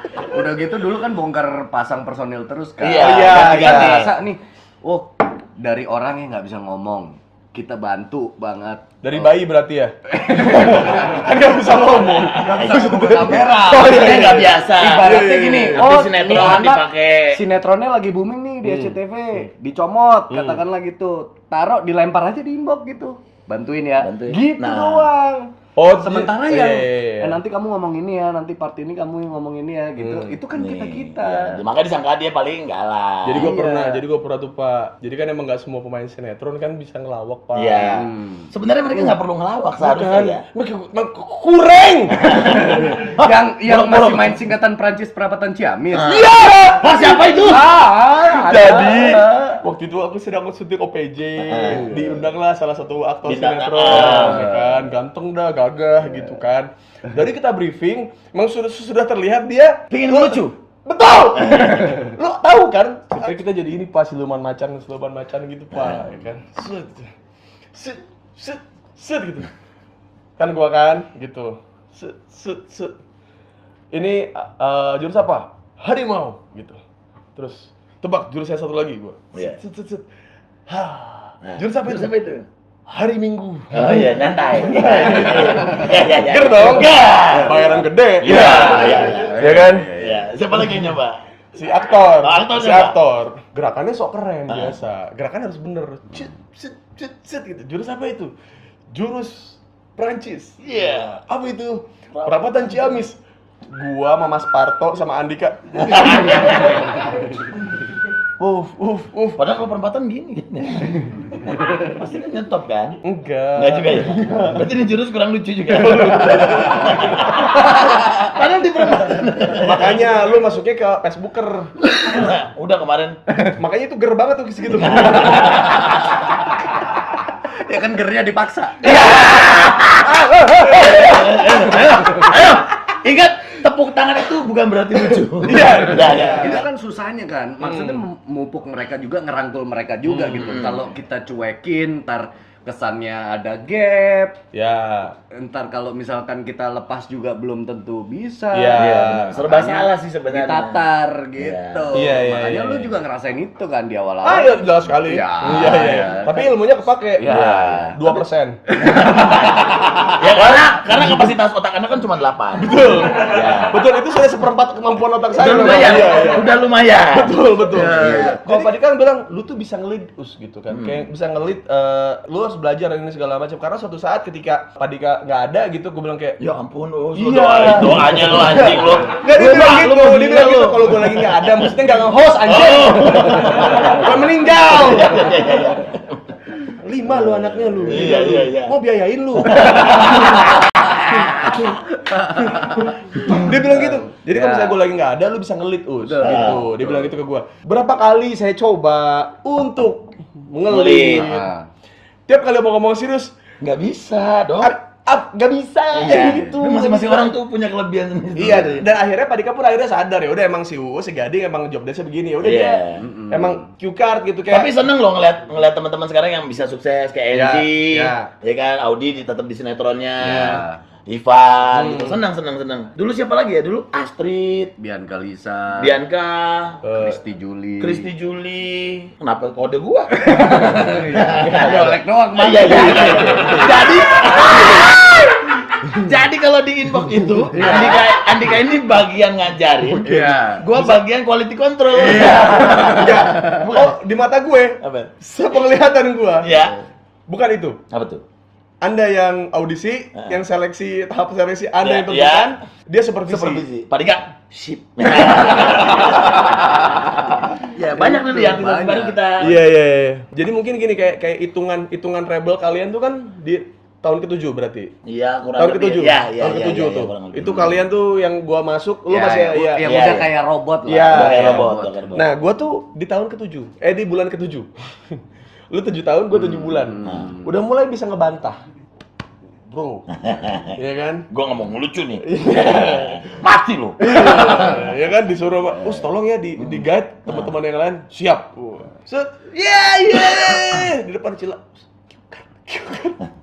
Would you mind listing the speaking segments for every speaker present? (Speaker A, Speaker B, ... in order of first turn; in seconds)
Speaker A: 0.3-9.3, 10.1-11.3, 12.4-31.6, 33.3-34.0, 38.0-38.5, 42.6-46.2, 47.3-49.5, 51.7-52.2, 53.9-54.8, 87.3-90.3, 127.5-129.1, 136.0-144.4, 145.3-156.5, 157.2-158.2, 167.7-168.5, 177.8-178.5, 187.2-188.3, 192.1-192.9, 193.5-194.8, 196.0-196.6, 201.2-201.6, 213.0-213.6, 220.2-220.8, 224.8-225.9, 227.0-228.1, 230.1-234.6, 237.5-238.1, 240.0-240.7, 241.9-243.4, 258.0-259.2, 269.1-272.1, 276.5-277.5
Speaker B: 2.8-4.1, 12.4-17.4, 24.0-25.1, 30.5-33.5, 37.5-40.4, 42.1-44.4, 45.9-47.6, 51.4-51.9, 53.2-54.5, 59.9-60.5, 61.4-61.9, 65.7-66.0, 79.3-79.6, 81.4-82.5, 83.7-87.7, 88.2-91.2, 92.2-93.0, 94.5-94.8, 100.6-101.2, 102.1-102.9, 105.8-106.8, 109.4-113.0, 113.5-120.0, 121.8-123.2, 124.8-125.9, 128.8-136.6, 140.1-140.8, 148.7-150.8, 151.4-152.0, 158.8-163.8, 165.3-168.6, 170.7-171.0, 176.4-181.7, 182.4-186.3, 187.8-188.8, 189.4-191.7, 196.2-196.9, 200.7-201.3, 203.6-204.7, 205.9-208.9, 212.4-213.1, 214.5-224.7, 225.8-226.8, 227.8-244.0, 244.8-245.1, 246.4-246.8, 247.9-248.2, 251.8-252.6, 253.3-256.6, 257.5-259.6, 265.0-267.8, 269.8-270.3, 271.1-272.2, 277.0-277.3, 280.1-280.8, 281.3-284.3, 286.6-287.5
Speaker C: 3.0-4.0, 9.0-15.9, 18.6-18.9, 20.3-20.6, 25.8-27.4, 33.2-37.9, 39.8-42.4, 46.0-67.1, 67.7-69.5, 70.4-72.9, 73.9-76.8, 77.3-80.0, 80.7-82.1, 82.9-89.9, 91.5-98.3, 98.9-100.5, 101.3-103.2, 103.7-106.7, 108.4-109.4, 113.0-114.6, 115.7-117.3, 119.5-121.7, 123.4-125.6, 130.4-131.1, 135.4-136.6, 137.6-138.0, 144.5-145.2, 148.5-149.3, 151.9-152.9, 154.2-158.6, 160.5-161.2, 162.6-166.5, 167.1-176.4, 177.2-185.4, 186.8-190.5, 191.4-191.8, 192.3-201.5, 202.3-203.3, 204.6-207.3, 208.3-214.7, 217.3-218.3, 221.7-222.1, 226.8-227.2, 240.1-240.9, 242.6-246.5, 247.3-247.8, 248.8-253.6, 259.4-264.9, 265.6-269.8, 270.9-275.2, 275.7-278.6, 279.7-280.1, 280.7-281.2, 282.2-283.2, 284.0-293.2